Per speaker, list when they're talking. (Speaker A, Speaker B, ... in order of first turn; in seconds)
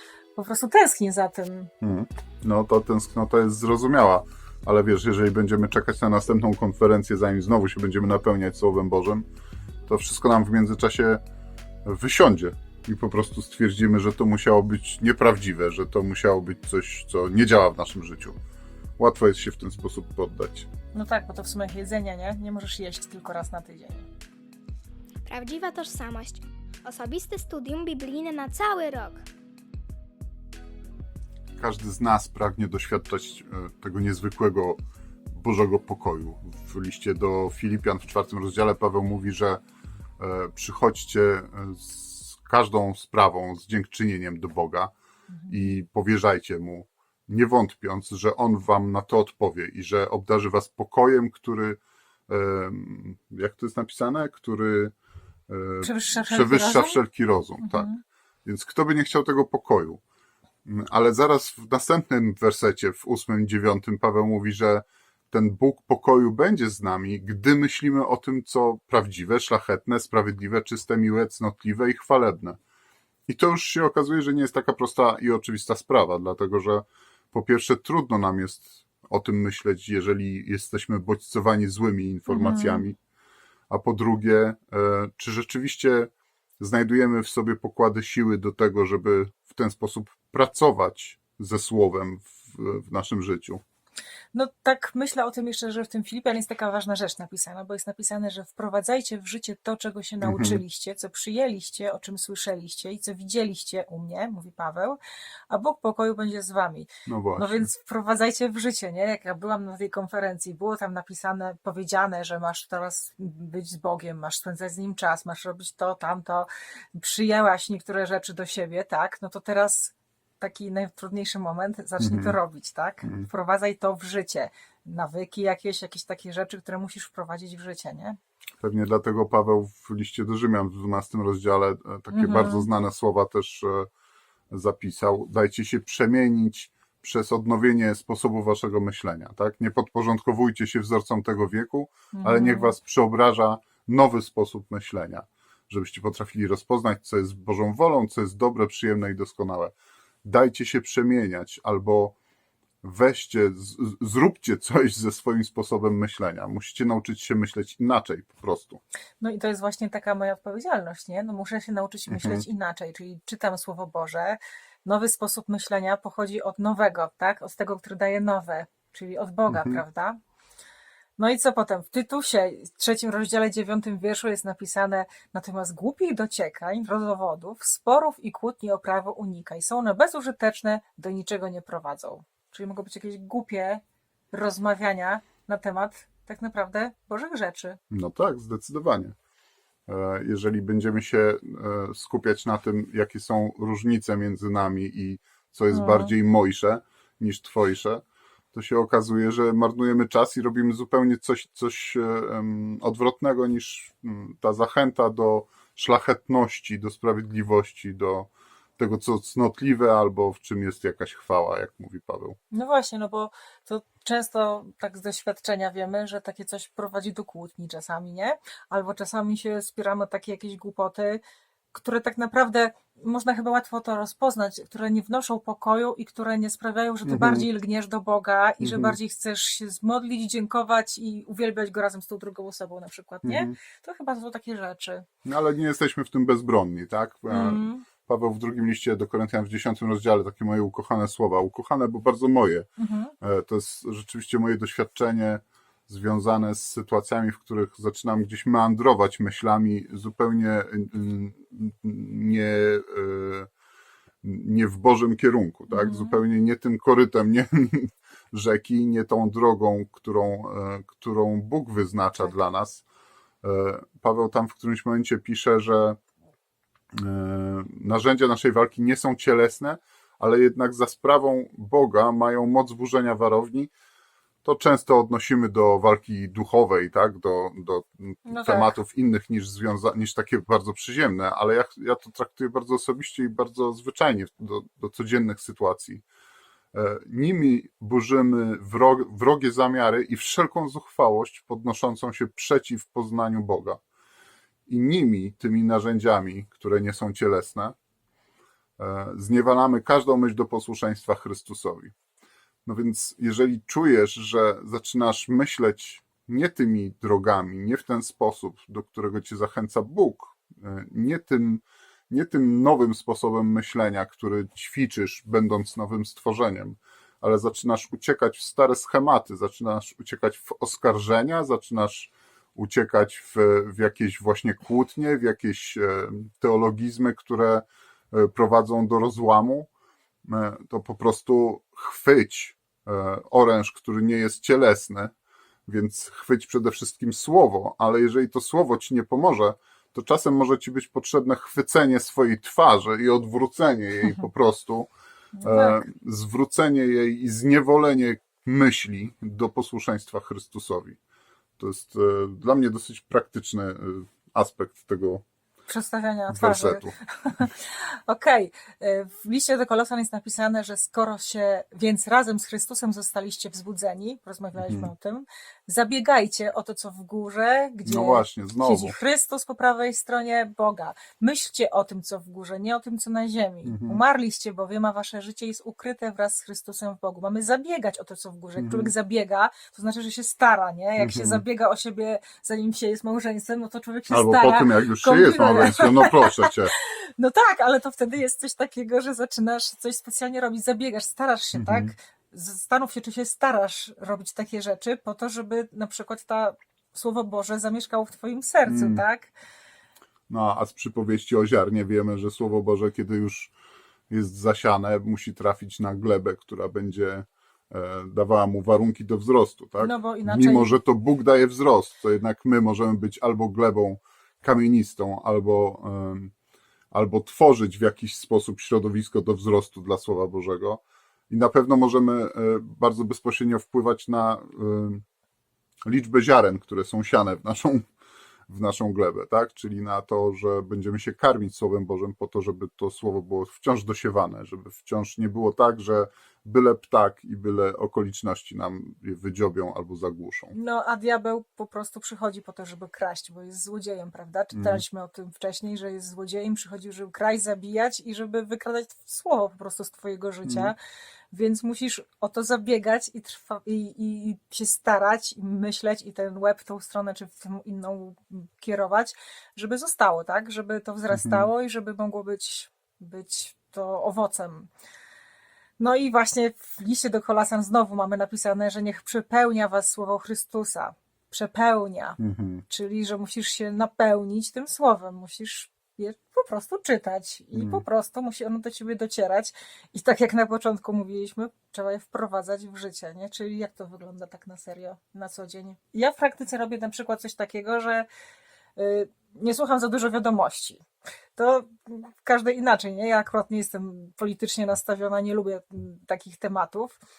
Speaker A: 0.3-1.7, 20.9-24.1, 45.3-45.6, 55.8-57.0, 57.6-58.0, 82.3-82.8, 94.3-105.0, 105.5-128.2, 132.1-132.7, 142.1-142.7, 159.2-170.2, 171.2-187.8, 195.7-196.1, 212.5-221.2, 221.7-235.1, 237.3-237.8, 242.8-243.1, 255.7-256.2, 278.2-278.7, 345.3-345.8, 355.7-399.3, 409.8-410.7, 440.5-450.8, 451.3-464.7, 465.8-488.1, 488.8-490.8, 491.4-497.0
Speaker B: 1.8-9.2, 9.9-11.2, 11.8-18.4, 19.0-20.7, 31.6-34.8, 35.3-39.6, 40.2-44.9, 45.5-54.9, 55.5-57.9, 58.4-60.0, 60.6-72.6, 73.3-82.9, 83.7-93.6, 100.2-100.6, 107.0-107.7, 122.0-122.4, 123.0-123.3, 128.6-133.9, 134.5-149.7, 150.2-152.1, 152.8-158.8, 162.1-162.4, 169.5-169.8, 187.9-189.1, 189.9-212.4, 227.0-227.5, 228.6-229.0, 233.2-233.6, 235.2-242.7, 243.2-253.5, 254.2-262.8, 263.4-266.0, 266.9-273.7, 274.4-286.0, 286.7-293.8, 294.7-297.7, 298.8-301.9, 302.6-329.7, 330.2-335.1, 335.7-344.9, 345.4-351.0, 351.6-355.2, 356.3-357.4, 364.6-364.9, 367.8-368.9, 373.6-374.0, 378.6-378.9, 381.0-381.4, 384.1-386.7, 391.5-391.9, 398.7-399.0, 400.3-403.5, 404.1-416.3, 416.9-425.0, 425.9-427.8, 428.5-440.5, 444.5-444.8, 450.4-450.7, 461.1-461.5, 472.2-472.6, 477.5-477.8
Speaker C: 25.2-29.2